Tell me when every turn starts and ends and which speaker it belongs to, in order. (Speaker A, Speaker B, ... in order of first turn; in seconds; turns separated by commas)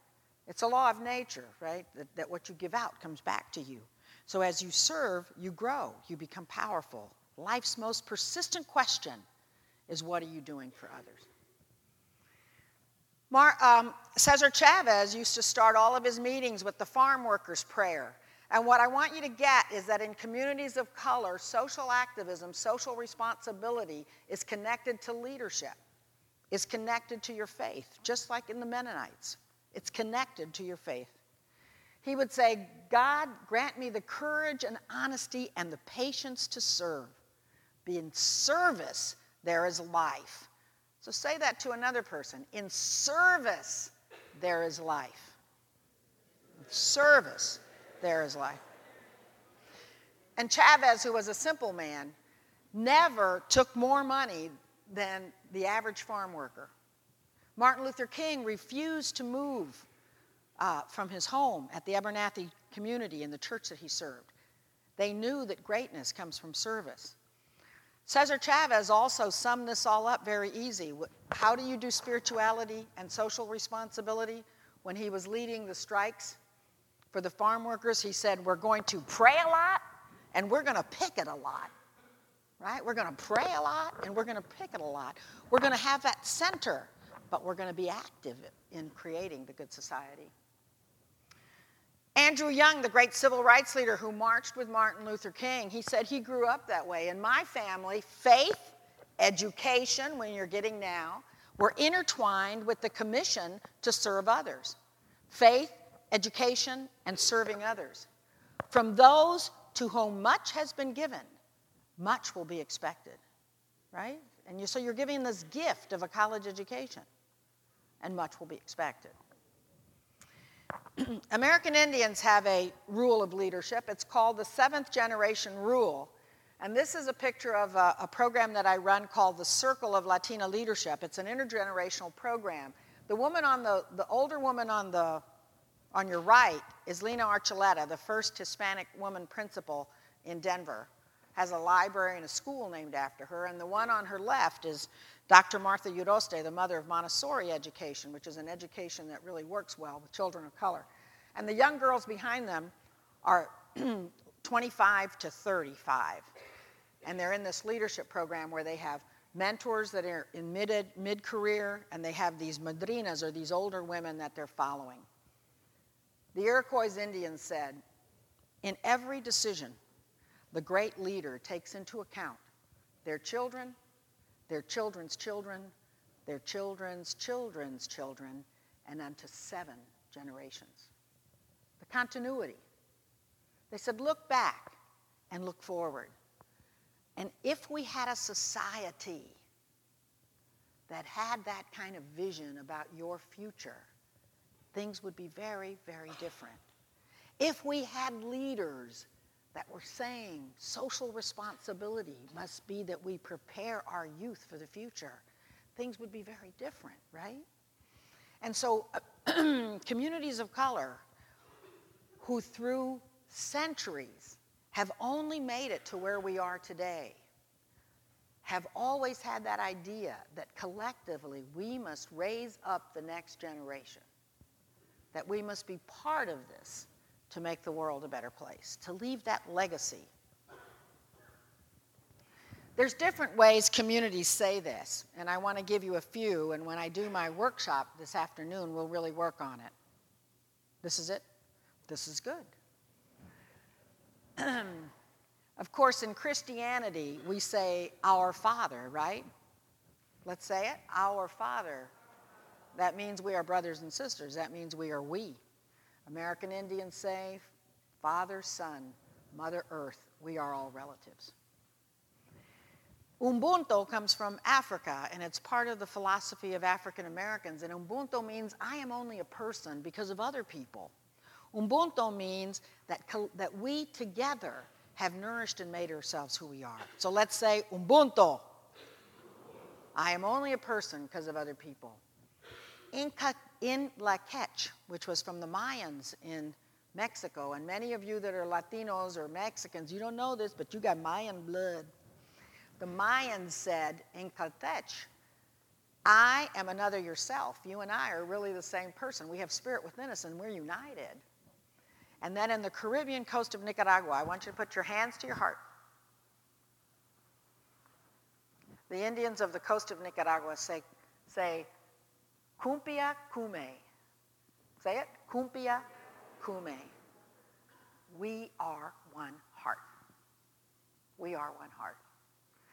Speaker A: 0.5-9.2, Speaker A: 9.9-11.3, Speaker A: 13.3-25.8, Speaker A: 26.5-31.2, Speaker A: 32.0-37.2, Speaker A: 37.9-40.5, Speaker A: 41.0-45.4, Speaker A: 46.6-48.6, Speaker A: 50.4-52.1, Speaker A: 52.7-56.7, Speaker A: 57.6-59.9, Speaker A: 60.6-64.3, Speaker A: 65.0-67.2, Speaker A: 68.1-76.4, Speaker A: 77.1-79.8, Speaker A: 80.3-81.7, Speaker A: 82.6-90.3, Speaker A: 92.2-104.8, Speaker A: 105.3-108.1, Speaker A: 108.7-111.3, Speaker A: 112.0-113.2, Speaker A: 113.9-117.1, Speaker A: 118.0-119.2, Speaker A: 121.0-135.2, Speaker A: 135.9-152.7, Speaker A: 153.2-156.3, Speaker A: 157.0-165.1, Speaker A: 166.3-167.8, Speaker A: 168.6-169.8, Speaker A: 170.5-172.4, Speaker A: 173.1-173.8, Speaker A: 174.5-175.7, Speaker A: 176.3-180.9, Speaker A: 181.8-182.6, Speaker A: 183.7-184.8, Speaker A: 185.3-186.1, Speaker A: 187.2-189.4, Speaker A: 190.9-193.9, Speaker A: 194.7-196.6, Speaker A: 197.4-205.2, Speaker A: 205.8-207.4, Speaker A: 208.4-211.0, Speaker A: 212.2-217.2, Speaker A: 218.4-224.1, Speaker A: 225.1-230.1, Speaker A: 232.8-239.7, Speaker A: 240.8-241.2, Speaker A: 241.9-242.5, Speaker A: 244.4-244.9, Speaker A: 245.6-249.3, Speaker A: 250.2-251.9, Speaker A: 252.8-255.4, Speaker A: 256.1-257.5, Speaker A: 258.0-261.3, Speaker A: 263.2-270.9, Speaker A: 271.5-278.5, Speaker A: 279.9-282.0, Speaker A: 282.9-291.9, Speaker A: 292.8-295.1, Speaker A: 296.1-301.2, Speaker A: 302.2-305.6, Speaker A: 308.9-311.7, Speaker A: 312.6-313.8, Speaker A: 314.8-315.8, Speaker A: 316.4-316.9, Speaker A: 318.1-319.8, Speaker A: 321.2-322.0